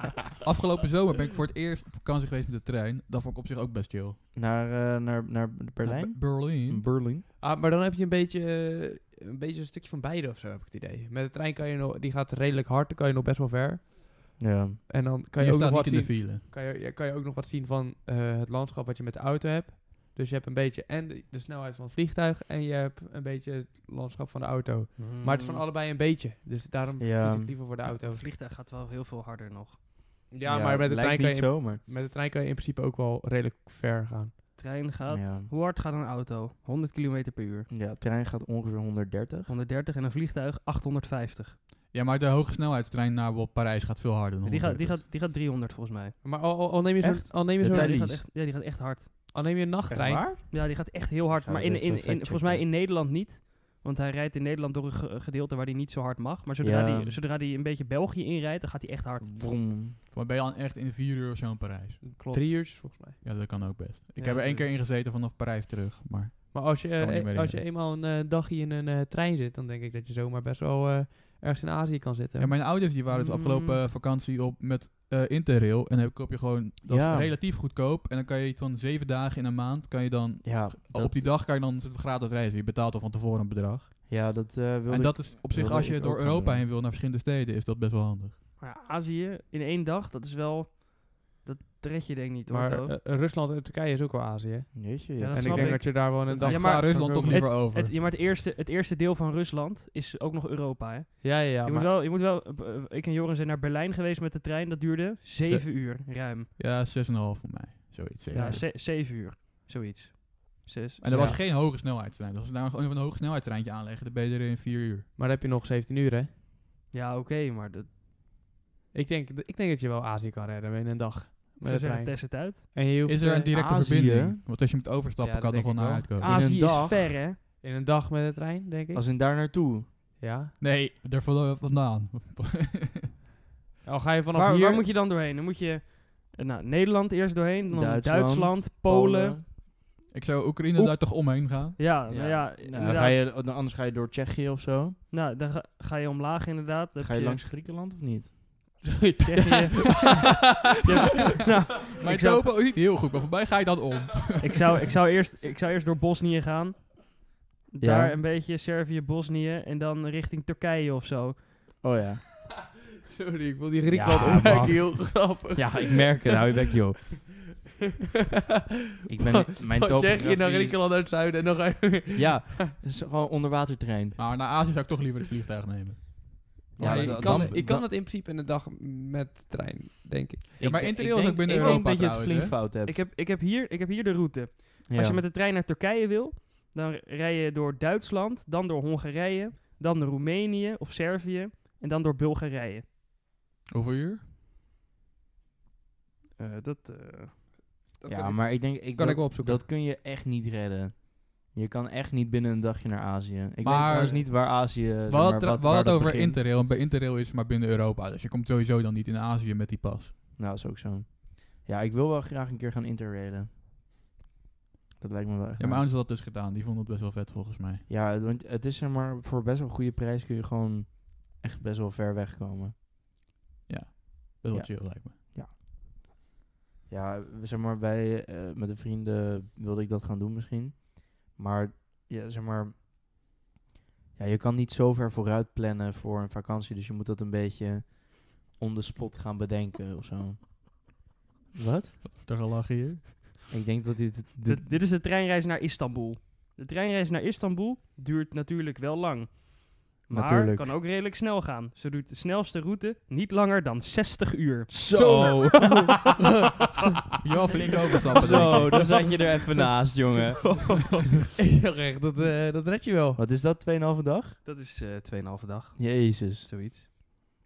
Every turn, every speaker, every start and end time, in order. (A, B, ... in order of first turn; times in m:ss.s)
0:00.4-0:04.2 A
0:04.3-0:07.3 B
0:05.8-0:06.9 A
0:07.4-0:14.3 C
0:14.4-0:14.8 B
0:14.9-0:28.2 C
0:15.4-0:16.4 A
0:25.0-0:25.6 D
0:27.0-0:27.6 B
0:27.8-0:29.8 D
0:30.3-0:34.4 C
0:30.4-0:31.8 B
0:34.6-0:37.7 D
0:35.1-0:35.5 B
0:37.7-0:39.5 B
0:39.5-0:41.6 D
0:41.9-0:45.0 A
0:44.4-0:46.2 D
0:46.2-0:48.0 C
0:47.0-0:48.2 B
0:47.6-0:49.1 D
0:49.3-0:50.3 C
0:49.9-0:52.6 B
0:50.5-0:59.3 D
0:56.6-0:57.2 B
0:59.2-1:00.0 B
1:00.1-1:02.1 A
1:02.0-1:03.2 C
1:02.1-1:02.6 D
1:03.2-1:07.6 A
1:04.2-1:04.7 D
1:06.5-1:12.5 C
1:12.4-1:24.0 A
1:13.1-1:13.8 D
1:16.8-1:17.4 B
1:20.4-1:21.3 B
1:24.1-1:26.7 B
1:24.9-1:28.4 A
1:28.6-1:33.0 D
1:32.5-1:37.5 C
1:34.7-1:35.9 B
1:35.2-1:46.5 D
1:36.4-1:37.9 A
1:41.2-1:41.9 C
1:45.4-1:45.7 A
1:46.6-1:48.6 A
1:48.3-1:48.6 C
1:48.3-1:51.3 D
1:51.0-1:55.1 A
1:51.1-1:51.4 C
1:55.2-1:56.3 C
1:56.9-1:57.9 D
1:58.9-2:03.5 C
2:01.6-2:02.6 D
2:03.1-2:06.3 A
2:03.5-2:04.4 B
2:05.2-2:06.1 C
2:06.2-2:07.4 D
2:06.2-2:07.2 B
2:07.6-2:09.0 C
2:08.9-2:09.9 B
2:10.2-2:10.5 C
2:10.6-2:13.1 A
2:13.8-2:14.8 C
2:14.3-2:19.4 D
2:17.7-2:19.5 B
2:20.1-2:21.8 A
2:20.8-2:23.2 D
2:22.1-2:25.0 B
2:25.1-2:27.4 D
2:27.0-2:28.8 B
2:28.8-2:30.1 C
2:29.2-2:30.1 D
2:30.8-2:32.6 D
2:32.0-2:34.6 A
2:34.4-2:41.5 D
2:37.8-2:38.2 B
2:41.8-2:42.2 B
2:43.0-2:46.4 C
2:43.9-2:47.1 B
2:49.1-2:52.6 C
2:49.1-2:50.8 B
2:52.1-2:54.2 B
2:54.2-2:57.6 A
2:56.8-2:57.9 B
2:56.8-3:00.6 C
3:00.6-3:03.0 B
3:00.6-3:02.5 A
3:01.5-3:01.8 D
3:02.8-3:12.8 D
3:04.9-3:05.2 B
3:13.7-3:14.2 A
3:16.4-3:17.4 D
3:18.0-3:19.6 C
3:18.1-3:26.4 B
3:23.6-3:30.1 A
3:30.4-3:33.5 B
3:35.0-3:35.9 B
3:35.6-3:37.8 A
3:37.9-3:42.8 B
3:43.7-3:45.1 A
3:44.5-3:45.5 B
3:46.9-3:52.8 B
3:54.2-4:00.9 B
4:01.5-4:02.0 B
4:02.0-4:03.2 A
4:03.5-4:04.7 B
4:04.5-4:15.0 D
4:10.1-4:10.7 B
4:14.7-4:16.2 B
4:14.9-4:16.0 C
4:17.2-4:18.9 A
4:18.2-4:19.2 C
4:18.2-4:20.8 B
4:20.4-4:20.8 C
4:21.4-4:23.2 C
4:23.2-4:24.4 B
4:24.4-4:26.9 D
4:25.8-4:26.5 B